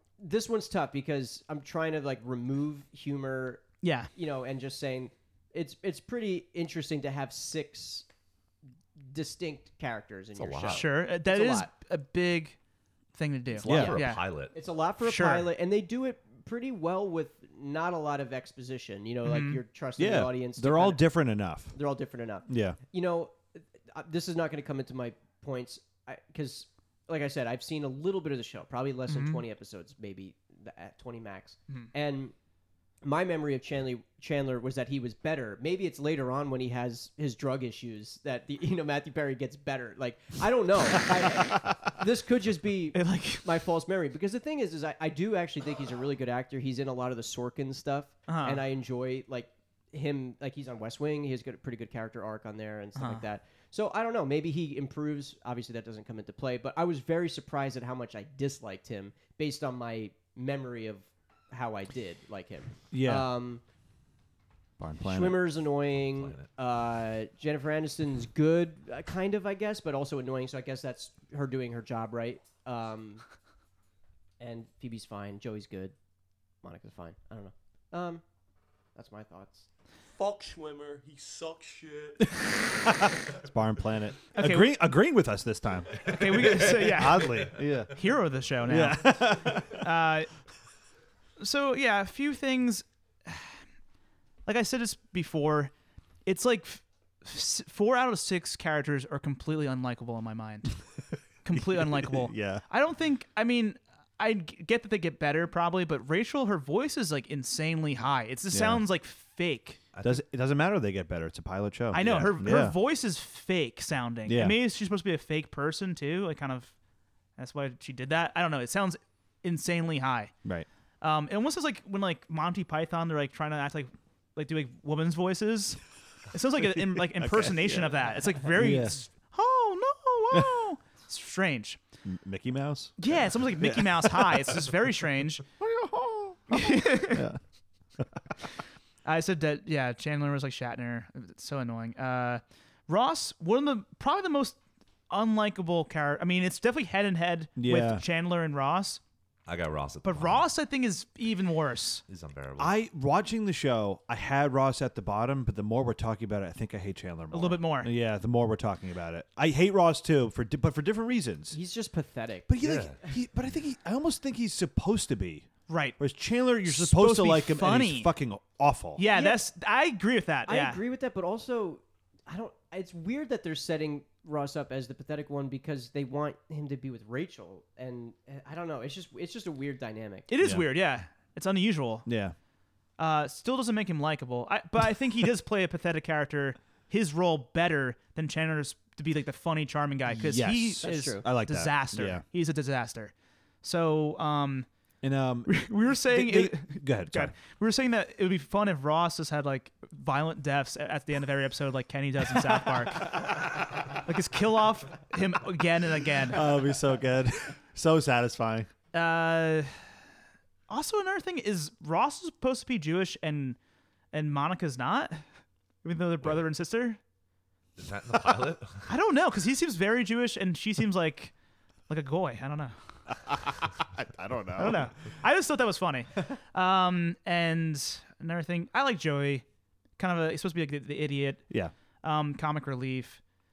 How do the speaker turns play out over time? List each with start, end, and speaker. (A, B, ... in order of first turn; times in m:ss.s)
0:00.2-0:08.0 A
0:03.8-0:04.1 B
0:09.0-0:11.7 A
0:10.4-0:10.9 C
0:10.6-0:12.6 B
0:13.1-0:14.2 B
0:13.5-0:14.5 C
0:13.6-0:14.0 D
0:13.7-0:14.0 A
0:14.5-0:21.0 A
0:15.0-0:15.5 B
0:19.2-0:19.6 B
0:20.0-0:21.8 D
0:21.7-0:32.3 A
0:22.5-0:22.8 D
0:29.1-0:29.4 B
0:33.0-1:03.6 A
0:42.9-0:43.5 B
0:48.3-0:48.6 B
0:53.0-0:53.2 B
1:02.9-1:03.3 D
1:04.8-1:05.4 D
1:05.0-1:13.2 A
1:06.0-1:06.5 C
1:14.4-1:15.9 A
1:16.6-1:18.2 A
1:18.9-1:19.7 A
1:20.1-1:22.4 E
1:22.4-1:28.0 D
1:24.3-1:24.8 B
1:26.0-1:27.4 C
1:26.0-1:30.3 B
1:28.6-1:29.8 D
1:31.4-1:33.6 B
1:34.4-1:35.7 B
1:36.2-1:40.8 B
1:41.4-1:49.8 B
1:41.5-1:42.6 D
1:48.5-1:48.8 D
1:49.9-1:50.2 C
1:50.0-1:52.8 D
1:51.9-1:56.7 B
1:51.9-1:52.5 C
1:54.2-1:54.6 D
1:57.4-2:00.3 B
2:01.0-2:11.8 B
2:06.6-2:09.0 D
2:10.3-2:10.6 D
2:12.0-2:14.7 D
2:13.0-2:15.4 B
2:15.6-2:17.4 D
2:16.5-2:17.2 B
2:18.0-2:18.2 D
2:19.0-2:24.6 B
2:25.1-2:29.0 B
2:27.6-2:28.0 D
2:29.4-2:30.4 C
2:30.0-2:32.0 B
2:32.1-2:32.7 C
2:32.6-2:41.6 D
2:37.3-2:37.9 B
2:41.5-2:42.6 A
2:42.5-2:49.0 D
2:42.6-2:43.0 C
2:45.7-2:46.0 B
2:46.6-2:48.1 B
2:49.0-2:50.8 B
2:49.1-2:49.4 A
2:50.4-3:00.3 A
3:00.3-3:02.1 B
3:00.4-3:00.7 D
3:02.0-3:02.3 D
3:03.0-3:14.7 B
3:10.1-3:12.2 D
3:10.8-3:11.2 A
3:15.0-3:17.3 D
3:15.5-3:26.4 B
3:26.3-3:28.7 D
3:28.9-3:29.8 B
3:30.7-3:33.6 B
3:34.1-3:35.2 B
3:35.8-3:37.0 B
3:37.8-3:38.9 C
3:38.9-3:41.3 B
3:41.9-3:42.7 B
3:43.3-3:44.9 D
3:44.6-3:49.4 B
3:50.0-3:51.5 B
3:52.0-3:53.2 B